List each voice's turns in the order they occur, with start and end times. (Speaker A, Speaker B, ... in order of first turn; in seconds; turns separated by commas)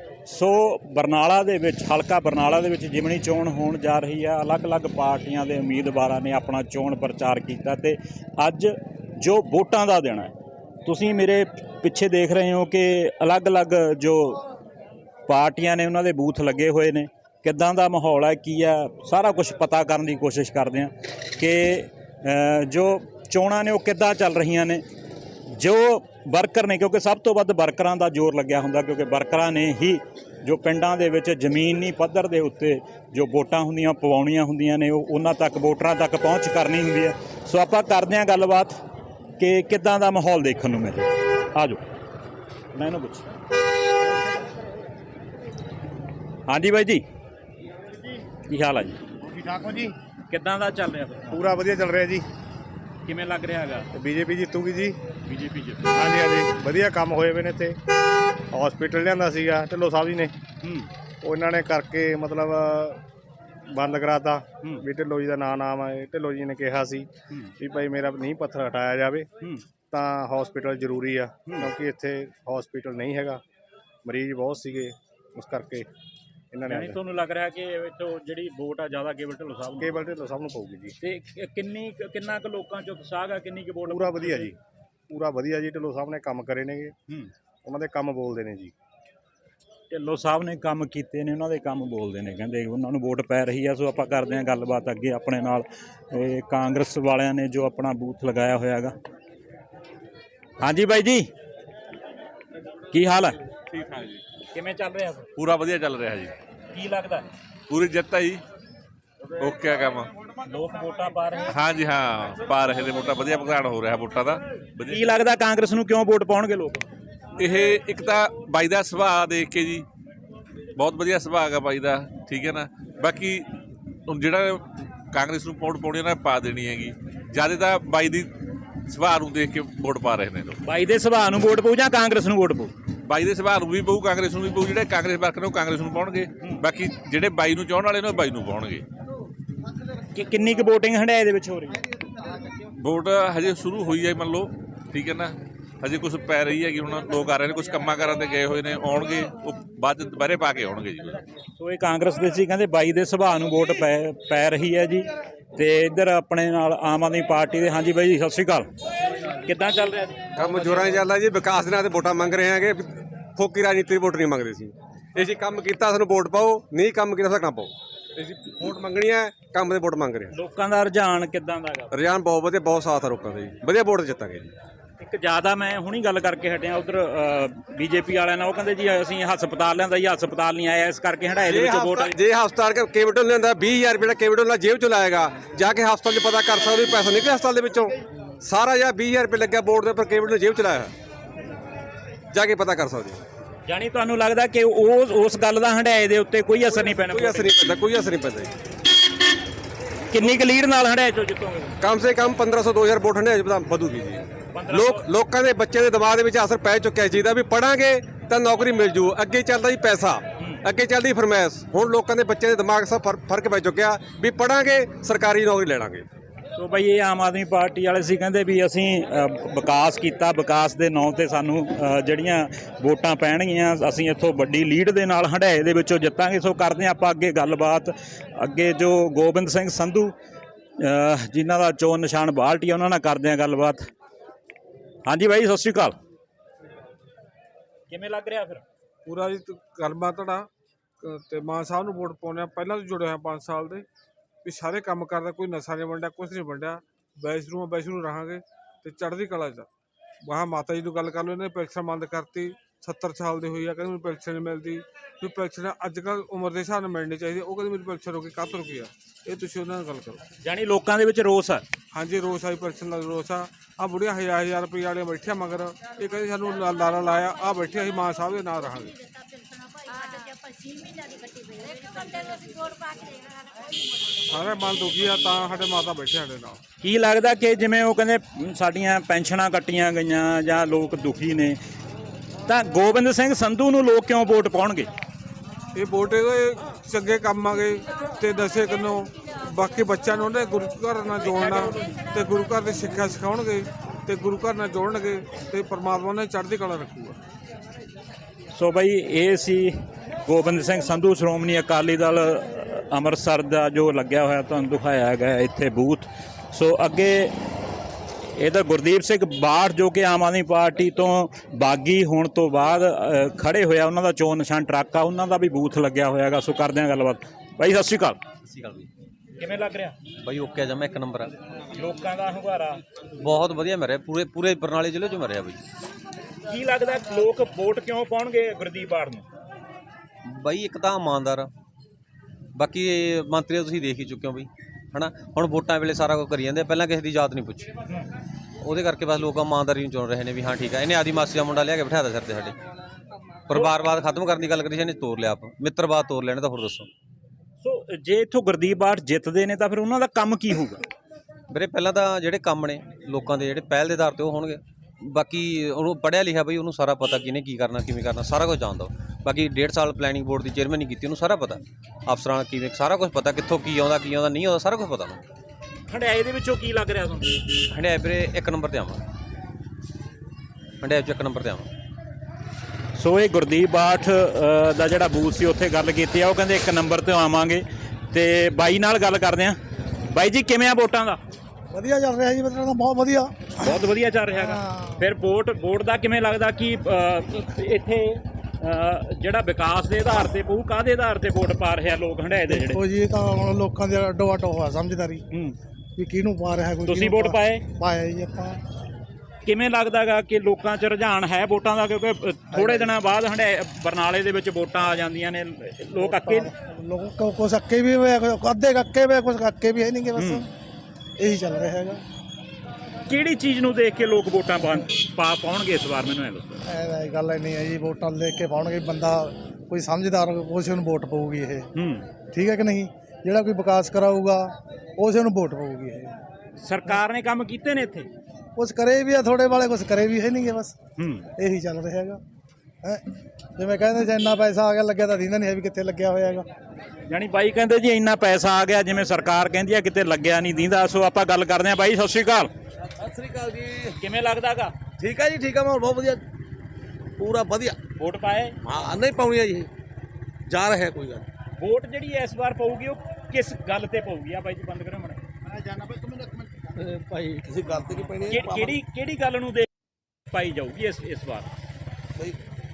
Speaker A: 0.3-10.3, Speaker A: 10.8-14.4, Speaker A: 15.3-24.8, Speaker A: 25.5-38.7, Speaker A: 39.4-41.8, Speaker A: 42.7-43.2, Speaker A: 46.5-47.0, Speaker A: 48.5-49.0, Speaker B: 49.4-49.9, Speaker A: 50.3-51.4, Speaker B: 51.3-52.2, Speaker A: 53.0-53.9, Speaker B: 53.9-55.0, Speaker A: 55.3-56.0, Speaker B: 55.9-57.8, Speaker B: 58.5-60.3, Speaker A: 60.6-60.9, Speaker B: 61.2-63.0, Speaker B: 63.7-69.3, Speaker B: 69.9-73.4, Speaker B: 74.0-75.9, Speaker B: 76.5-77.0, Speaker A: 76.7-80.0, Speaker B: 79.8-81.0, Speaker A: 81.0-84.5, Speaker B: 83.9-84.6, Speaker B: 85.1-86.9, Speaker B: 87.6-88.7, Speaker A: 89.9-99.0, Speaker A: 100.6-101.3, Speaker A: 102.9-103.4, Speaker C: 103.7-104.2, Speaker A: 104.5-105.3, Speaker C: 105.4-106.3, Speaker A: 106.7-107.3, Speaker C: 107.7-108.4, Speaker C: 109.4-110.1, Speaker A: 110.5-111.5, Speaker C: 111.5-115.1, Speaker A: 114.9-116.8, Speaker C: 117.4-119.9, Speaker C: 120.8-123.5, Speaker C: 124.1-128.3, Speaker C: 128.9-130.6, Speaker A: 130.6-132.7, Speaker C: 133.1-138.8, Speaker A: 140.1-141.8, Speaker C: 142.8-151.2, Speaker A: 151.6-158.7, Speaker A: 159.4-160.9, Speaker D: 160.4-170.3, Speaker A: 170.3-171.9, Speaker D: 171.9-174.5, Speaker A: 175.0-182.1, Speaker D: 181.4-190.9, Speaker D: 192.3-193.2, Speaker A: 193.7-197.6, Speaker D: 196.7-198.5, Speaker A: 200.1-201.8, Speaker D: 201.8-216.1, Speaker A: 204.5-205.1, Speaker A: 216.6-230.1, Speaker A: 230.8-233.8, Speaker A: 235.1-235.9, Speaker A: 237.9-238.6, Speaker E: 239.1-240.5, Speaker E: 241.0-243.8, Speaker E: 244.4-249.7, Speaker E: 250.2-260.2, Speaker A: 260.4-261.6, Speaker E: 261.9-268.9, Speaker E: 274.3-276.6, Speaker A: 276.8-281.6, Speaker A: 282.4-284.9, Speaker E: 285.8-297.2, Speaker A: 298.5-307.3, Speaker A: 308.3-318.2, Speaker F: 318.4-318.9, Speaker A: 319.4-320.0, Speaker F: 320.2-321.3, Speaker A: 321.8-322.8, Speaker F: 323.2-325.6, Speaker A: 326.4-329.2, Speaker F: 330.2-331.5, Speaker F: 332.5-337.7, Speaker F: 338.6-342.6, Speaker F: 343.5-346.9, Speaker A: 347.6-350.8, Speaker F: 351.5-365.2, Speaker A: 365.9-367.4, Speaker F: 367.7-369.0, Speaker F: 370.8-371.7, Speaker A: 372.9-379.6, Speaker A: 380.1-381.2, Speaker G: 381.7-383.5, Speaker A: 383.6-392.8, Speaker G: 384.3-385.0, Speaker G: 392.5-395.2, Speaker A: 395.3-395.6, Speaker G: 396.0-398.6, Speaker A: 396.9-397.6, Speaker A: 399.4-406.5, Speaker G: 402.5-402.9, Speaker G: 406.0-410.4, Speaker A: 410.1-410.4, Speaker G: 411.2-412.0, Speaker A: 413.1-416.6, Speaker G: 416.7-421.7, Speaker A: 421.8-422.1, Speaker G: 422.3-426.1, Speaker A: 426.6-428.1, Speaker G: 428.6-430.7, Speaker A: 431.0-431.3, Speaker G: 431.4-432.2, Speaker G: 433.6-436.4, Speaker A: 437.1-442.5, Speaker H: 443.0-443.9, Speaker A: 444.0-444.7, Speaker H: 445.0-446.2, Speaker H: 447.2-447.8, Speaker A: 448.0-448.5, Speaker H: 448.6-449.7, Speaker H: 450.5-451.2, Speaker A: 451.6-455.2, Speaker H: 457.4-458.8, Speaker A: 458.3-459.7, Speaker A: 460.3-461.5